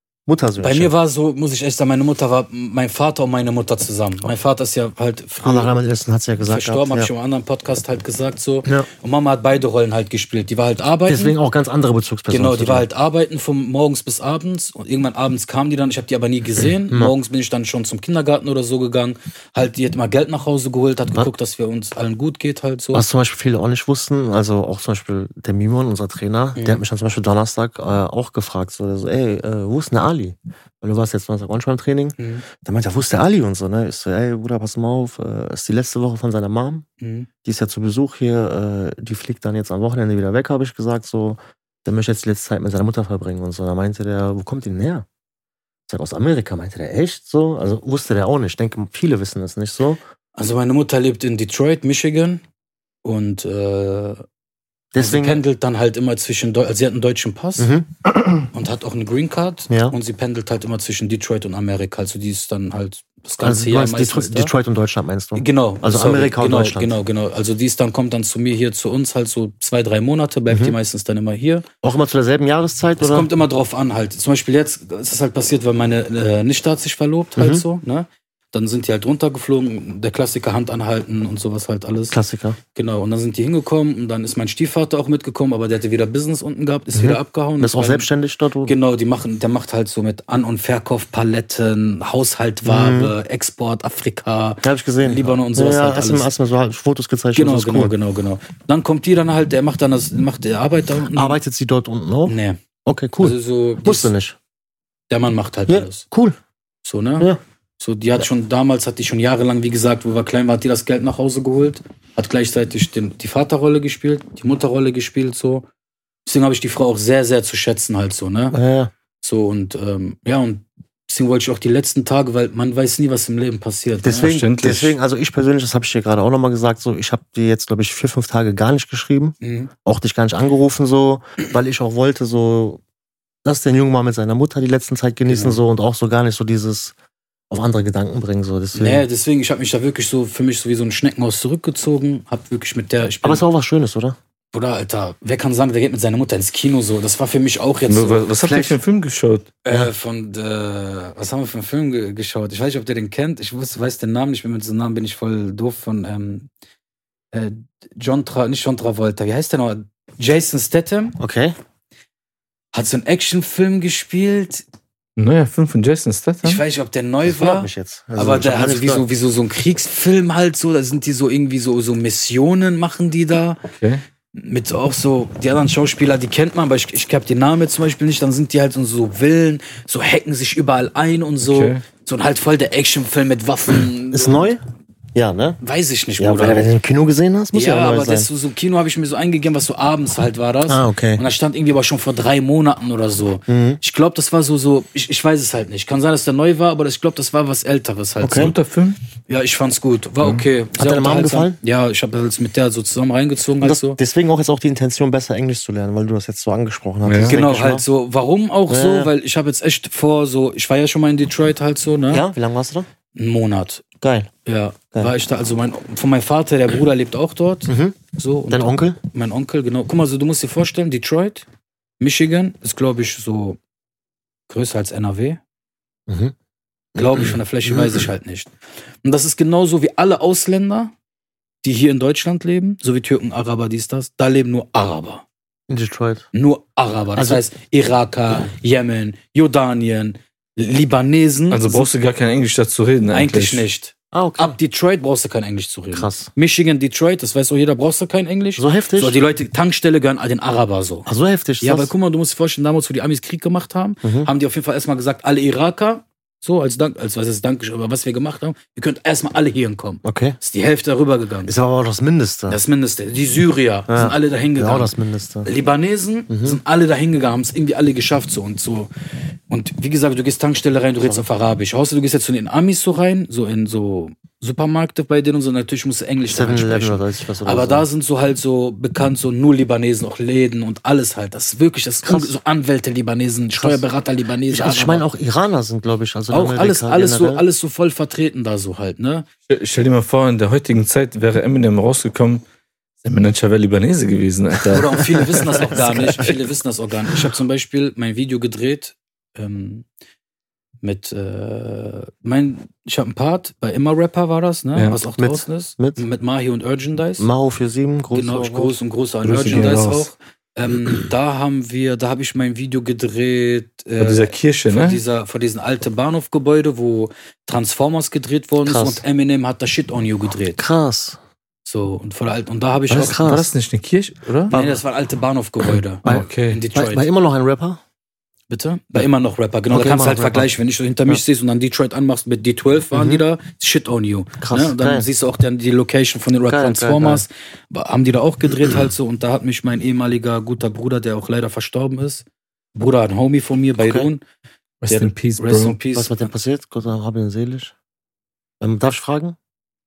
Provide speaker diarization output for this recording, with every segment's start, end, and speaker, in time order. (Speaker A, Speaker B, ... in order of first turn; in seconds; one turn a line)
Speaker A: 0.3-0.9
Speaker B: 0.6-5.7
Speaker A: 5.4-7.1
Speaker B: 6.5-11.3
Speaker A: 11.1-12.9
Speaker B: 12.3-23.0
Speaker A: 22.9-36.8
Speaker B: 26.6-26.8
Speaker B: 32.2-32.4
Speaker B: 37.0-37.3
Speaker A: 37.4-45.0
Speaker A: 45.9-50.0
Speaker B: 50.4-52.4
Speaker B: 53.0-54.2
Speaker A: 54.9-55.4
Speaker B: 55.0-57.7
Speaker A: 57.6-58.4
Speaker B: 58.5-64.5
Speaker A: 59.7-59.9
Speaker A: 63.4-67.0
Speaker B: 65.3-71.7
Speaker A: 70.5-70.8
Speaker A: 71.8-73.3
Speaker B: 73.0-82.2
Speaker A: 77.4-77.6
Speaker A: 82.1-82.6
Speaker B: 82.7-88.1
Speaker A: 86.9-88.8
Speaker B: 88.6-96.3
Speaker A: 92.7-93.1
Speaker A: 94.6-97.9
Speaker B: 97.3-101.4
Speaker A: 101.1-104.4
Speaker B: 102.2-102.6
Speaker B: 103.2-104.1
Speaker B: 105.1-106.0
Speaker A: 105.7-106.4
Speaker B: 106.8-115.7
Speaker B: 116.2-118.5
Speaker A: 118.5-118.9
Speaker B: 119.2-124.4
Speaker A: 124.0-132.8
Speaker C: 124.2-124.9
Speaker B: 129.4-129.7
Speaker A: 133.4-136.9
Speaker B: 135.3-135.6
Speaker A: 137.5-139.1
Speaker B: 138.7-143.4
Speaker A: 143.2-144.2
Speaker B: 144.5-148.3
Speaker C: 147.9-149.5
Speaker A: 148.4-148.8
Speaker B: 149.6-156.5
Speaker B: 157.3-161.2
Speaker A: 161.2-161.6
Speaker B: 162.7-164.6
Speaker C: 165.2-166.6
Speaker B: 166.4-173.6
Speaker A: 167.2-169.0
Speaker C: 173.7-174.0
Speaker B: 174.3-184.5
Speaker C: 181.4-181.8
Speaker A: 184.1-184.6
Speaker A: 185.1-185.6
Speaker B: 185.6-186.7
Speaker A: 186.2-188.3
Speaker B: 187.5-198.5
Speaker A: 190.7-191.2
Speaker A: 193.5-193.8
Speaker A: 198.2-198.5
Speaker C: 198.3-199.0
Speaker B: 199.3-204.0
Speaker A: 200.8-201.6
Speaker A: 203.6-207.8
Speaker C: 207.1-207.4
Speaker B: 207.3-212.2
Speaker A: 208.7-209.1
Speaker A: 212.1-212.9
Speaker B: 213.2-213.8
Speaker A: 214.0-214.3
Speaker B: 214.4-221.4
Speaker A: 217.7-218.0
Speaker A: 218.5-219.0
Speaker B: 222.0-223.6
Speaker B: 224.5-225.4
Speaker A: 226.1-226.3
Speaker A: 226.9-228.1
Speaker B: 226.9-230.9
Speaker B: 231.6-235.2
Speaker A: 235.7-236.3
Speaker B: 236.3-241.9
Speaker A: 237.2-237.4
Speaker C: 241.5-243.6
Speaker B: 243.1-251.1
Speaker A: 244.1-244.5
Speaker A: 245.9-246.3
Speaker A: 248.6-249.2
Speaker A: 251.1-251.9
Speaker B: 251.6-261.5
Speaker A: 254.0-254.3
Speaker A: 260.0-260.4
Speaker A: 261.4-262.6
Speaker B: 262.5-264.9
Speaker A: 263.9-265.5
Speaker B: 265.4-268.9
Speaker A: 266.3-266.6
Speaker B: 269.5-285.0
Speaker A: 276.3-277.9
Speaker A: 282.0-282.3
Speaker A: 283.5-283.8
Speaker A: 284.5-287.4
Speaker B: 286.3-289.2
Speaker C: 289.5-292.4
Speaker C: 293.0-296.3
Speaker B: 294.7-299.9
Speaker A: 295.3-296.3
Speaker B: 300.8-307.3
Speaker A: 305.2-306.0
Speaker A: 307.2-308.8
Speaker B: 308.1-320.6
Speaker C: 309.2-310.1
Speaker C: 314.0-315.0
Speaker A: 318.6-319.0
Speaker A: 320.5-321.2
Speaker B: 321.6-323.4
Speaker A: 322.9-323.5
Speaker C: 322.9-324.5
Speaker A: 324.5-324.8
Speaker B: 324.5-327.1
Speaker A: 326.0-327.8
Speaker C: 326.0-326.6
Speaker B: 328.5-344.2
Speaker A: 329.7-330.5
Speaker A: 332.9-333.2
Speaker A: 334.4-335.1
Speaker A: 336.5-337.2
Speaker A: 343.8-344.1
Speaker C: 344.8-345.8
Speaker B: 344.9-346.2
Speaker A: 345.9-347.7
Speaker A: 348.6-349.4